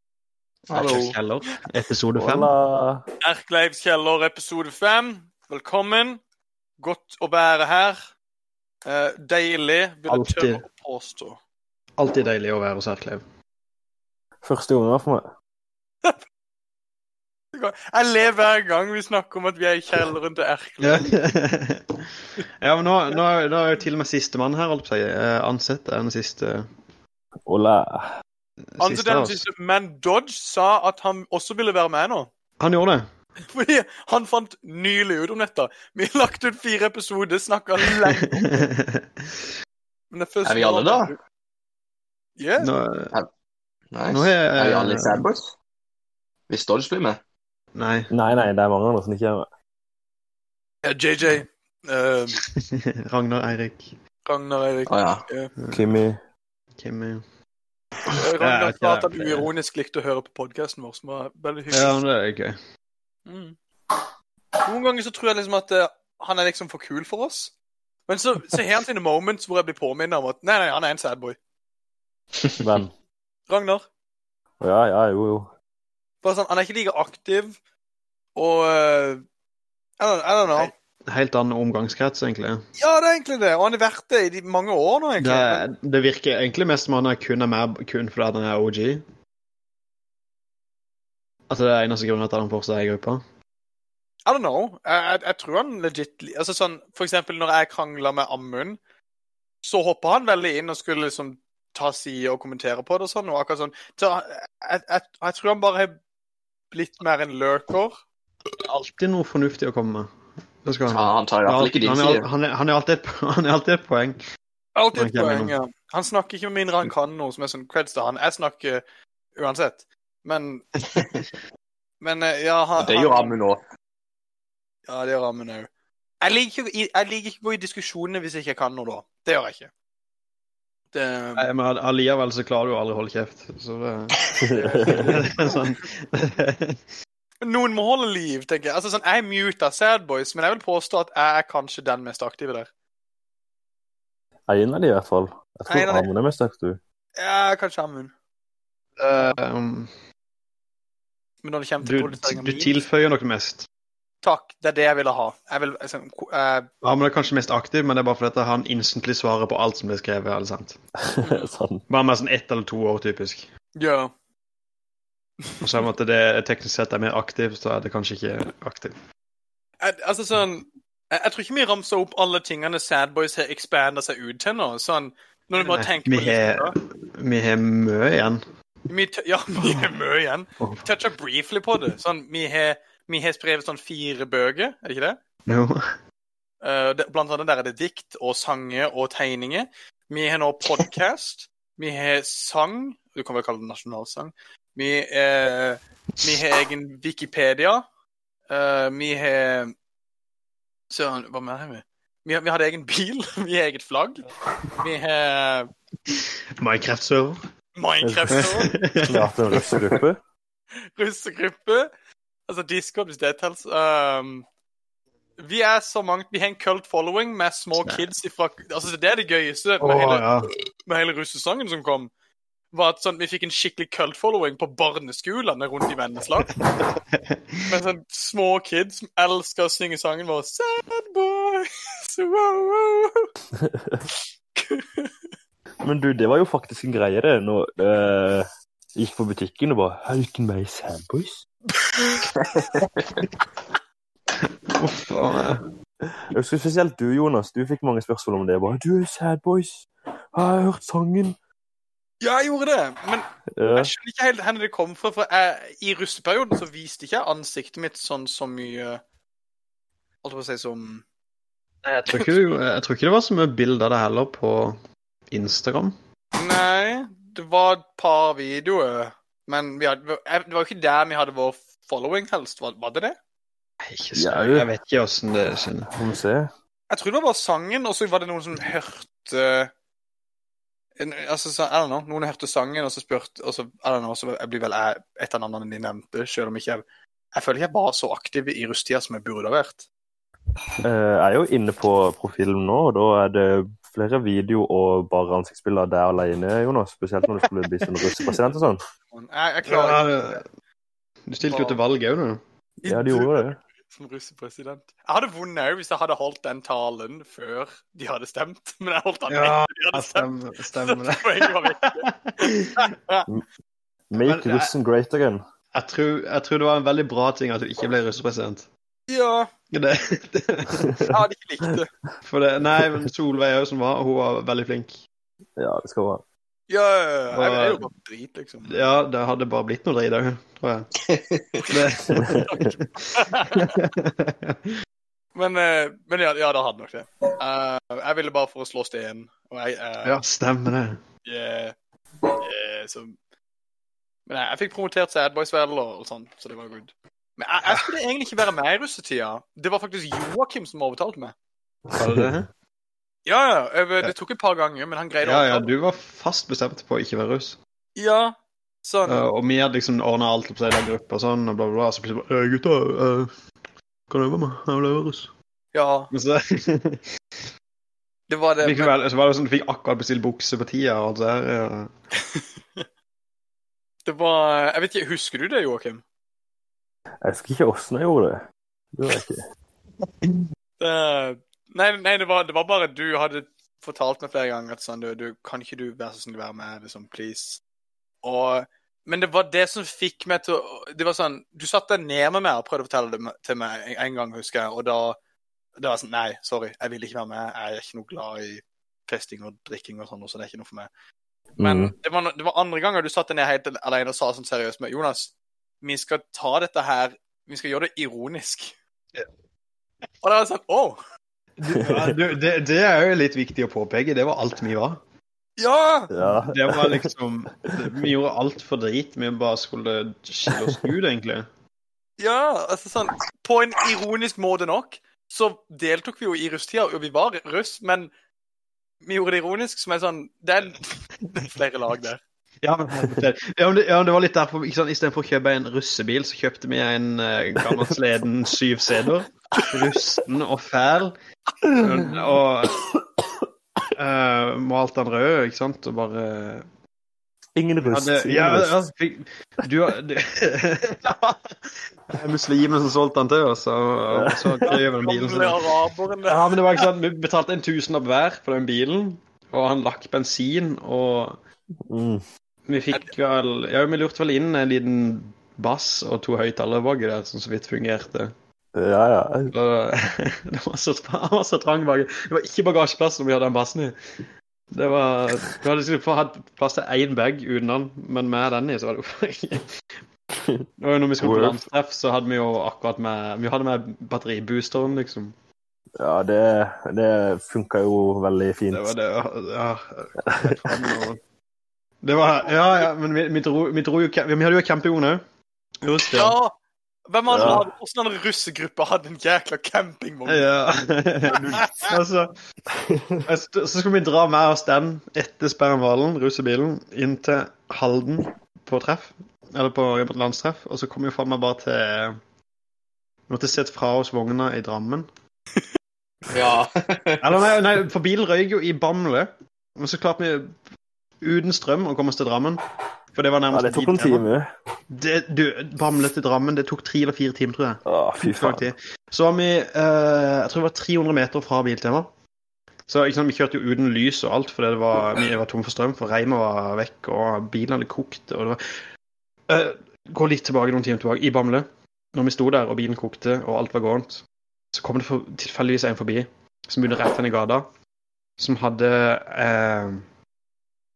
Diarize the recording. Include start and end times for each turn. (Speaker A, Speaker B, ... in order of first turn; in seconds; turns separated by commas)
Speaker A: 0.7-2.5, Speaker B: 0.7-1.2, Speaker C: 2.2-3.0, Speaker D: 3.2-6.2, Speaker D: 6.8-8.1, Speaker D: 8.8-11.4, Speaker A: 10.1-10.6, Speaker A: 12.0-13.2, Speaker C: 14.4-15.3, Speaker D: 17.5-21.1, Speaker A: 20.8-22.1, Speaker A: 22.6-26.7, Speaker C: 27.5-28.1, Speaker A: 28.8-29.4, Speaker D: 28.8-32.3, Speaker A: 32.6-33.1, Speaker D: 33.5-38.7, Speaker A: 37.9-39.4, Speaker D: 40.1-41.2, Speaker B: 40.5-41.1, Speaker D: 42.4-42.7, Speaker A: 42.6-43.1, Speaker B: 43.9-45.5, Speaker A: 44.1-45.3, Speaker B: 46.5-47.2, Speaker A: 47.8-48.1, Speaker C: 48.1-49.5, Speaker D: 50.8-52.4, Speaker A: 52.6-54.0, Speaker D: 54.3-55.5, Speaker B: 54.9-55.2, Speaker A: 55.6-55.9, Speaker C: 55.7-56.2, Speaker A: 56.8-57.2, Speaker A: 58.1-59.5, Speaker D: 58.2-62.0, Speaker A: 61.7-62.6, Speaker D: 63.3-63.6, Speaker D: 64.6-67.5, Speaker D: 68.1-71.4, Speaker C: 72.6-72.9, Speaker D: 73.5-73.8, Speaker C: 74.6-75.5, Speaker D: 76.2-77.6, Speaker D: 78.4-79.2, Speaker D: 80.0-80.7, Speaker A: 80.5-82.6, Speaker D: 82.8-85.7, Speaker A: 85.2-89.0, Speaker A: 91.5-93.2, Speaker D: 94.3-98.8, Speaker D: 99.6-106.0, Speaker D: 106.7-108.0, Speaker A: 108.5-110.1, Speaker A: 110.6-114.2, Speaker B: 110.9-112.3, Speaker D: 114.8-118.8, Speaker A: 114.9-115.5, Speaker D: 119.3-120.7, Speaker D: 122.0-123.3, Speaker B: 122.8-123.6, Speaker D: 124.9-125.7, Speaker D: 126.2-129.7, Speaker D: 130.9-131.5, Speaker A: 131.4-134.2, Speaker C: 134.4-135.1, Speaker D: 134.5-135.5, Speaker A: 134.9-136.8, Speaker D: 137.4-142.7, Speaker C: 144.5-146.8, Speaker D: 145.7-146.1, Speaker D: 147.2-148.1, Speaker A: 149.0-149.9, Speaker D: 151.4-152.8, Speaker A: 151.8-153.7, Speaker D: 154.2-156.7, Speaker A: 156.8-160.8, Speaker C: 161.2-161.8, Speaker D: 161.2-161.5, Speaker A: 161.9-163.5, Speaker D: 163.8-164.1, Speaker A: 165.6-169.0, Speaker D: 169.8-176.7, Speaker A: 175.6-178.4, Speaker D: 178.9-185.2, Speaker A: 180.6-180.8, Speaker A: 185.5-185.8, Speaker D: 186.6-197.8, Speaker D: 198.5-199.7, Speaker D: 200.9-204.3, Speaker D: 204.8-205.7, Speaker A: 206.1-207.4, Speaker D: 207.8-208.7, Speaker C: 208.0-208.5, Speaker A: 208.3-209.3, Speaker C: 209.0-210.2, Speaker D: 211.0-211.9, Speaker D: 212.5-214.5, Speaker D: 215.4-220.3, Speaker A: 219.8-220.5, Speaker D: 220.9-222.1, Speaker D: 222.7-226.5, Speaker A: 226.8-227.6, Speaker D: 227.7-233.3, Speaker C: 233.6-234.0, Speaker D: 234.6-235.1, Speaker C: 235.8-241.4, Speaker D: 241.8-242.3, Speaker B: 242.3-243.2, Speaker A: 244.4-245.7, Speaker C: 246.0-251.4, Speaker D: 252.2-259.0, Speaker C: 253.6-253.9, Speaker D: 260.2-261.0, Speaker A: 261.8-264.8, Speaker A: 265.3-266.0, Speaker D: 266.4-273.1, Speaker A: 273.8-276.0, Speaker C: 274.1-274.7, Speaker C: 275.9-276.5, Speaker D: 276.9-279.7, Speaker D: 281.0-289.9, Speaker C: 290.8-298.8, Speaker D: 299.1-300.4, Speaker A: 299.7-300.4, Speaker A: 301.3-302.4, Speaker D: 301.4-301.8, Speaker D: 302.8-313.3, Speaker C: 302.9-303.6, Speaker A: 309.3-312.7, Speaker C: 314.1-315.4, Speaker A: 314.1-314.7, Speaker A: 315.7-318.7, Speaker D: 319.1-319.5, Speaker A: 319.7-321.0, Speaker D: 321.1-321.9, Speaker A: 322.2-325.0, Speaker C: 325.6-326.2, Speaker D: 326.7-328.8, Speaker A: 327.3-327.9, Speaker A: 328.6-330.9, Speaker B: 331.1-331.6, Speaker A: 331.7-334.8, Speaker C: 332.1-332.5, Speaker D: 332.5-333.8, Speaker D: 335.4-340.2, Speaker A: 340.0-341.0, Speaker D: 341.3-341.7, Speaker D: 342.4-343.2, Speaker D: 344.3-351.3, Speaker A: 351.9-352.5, Speaker C: 352.0-352.3, Speaker D: 353.3-355.7, Speaker A: 355.2-357.6, Speaker D: 358.0-359.2, Speaker A: 359.1-363.3, Speaker A: 364.1-365.3, Speaker D: 365.7-366.1, Speaker A: 366.1-367.0, Speaker D: 368.3-368.9, Speaker A: 368.6-371.9, Speaker D: 372.4-372.8, Speaker D: 374.1-376.0, Speaker C: 377.2-378.4, Speaker C: 378.9-379.4, Speaker D: 380.8-387.6, Speaker D: 388.2-395.2, Speaker D: 395.8-400.9, Speaker C: 401.6-401.9, Speaker D: 401.6-408.8, Speaker D: 410.2-411.0, Speaker A: 411.6-415.0, Speaker C: 411.7-412.2, Speaker D: 415.6-416.1, Speaker C: 416.1-417.1, Speaker A: 416.2-421.5, Speaker D: 422.2-428.1, Speaker D: 429.0-432.2, Speaker A: 432.6-441.2, Speaker C: 441.7-442.4, Speaker A: 441.8-442.8, Speaker A: 443.9-446.7, Speaker C: 447.6-448.9, Speaker A: 447.8-455.6, Speaker C: 454.1-454.8, Speaker D: 454.7-456.8, Speaker A: 456.3-461.4, Speaker C: 461.9-462.2, Speaker A: 462.7-468.3, Speaker C: 468.8-469.5, Speaker A: 469.5-474.0, Speaker A: 474.7-480.0, Speaker C: 480.4-480.7, Speaker A: 480.8-485.4, Speaker C: 481.2-481.6, Speaker C: 486.0-488.9, Speaker A: 488.7-491.2, Speaker C: 490.2-491.0, Speaker A: 492.0-495.2, Speaker A: 495.8-496.4, Speaker D: 496.1-496.5, Speaker D: 497.1-500.5, Speaker A: 497.3-497.7, Speaker C: 497.3-497.6, Speaker A: 500.3-502.3, Speaker D: 501.3-501.9, Speaker C: 502.7-503.2, Speaker A: 503.2-512.2, Speaker A: 513.3-515.1, Speaker B: 516.3-517.2, Speaker A: 517.2-520.6, Speaker A: 521.2-524.3, Speaker C: 523.5-524.5, Speaker A: 524.9-532.1, Speaker C: 527.9-528.7, Speaker A: 532.9-538.9, Speaker A: 539.5-547.7, Speaker A: 548.4-550.1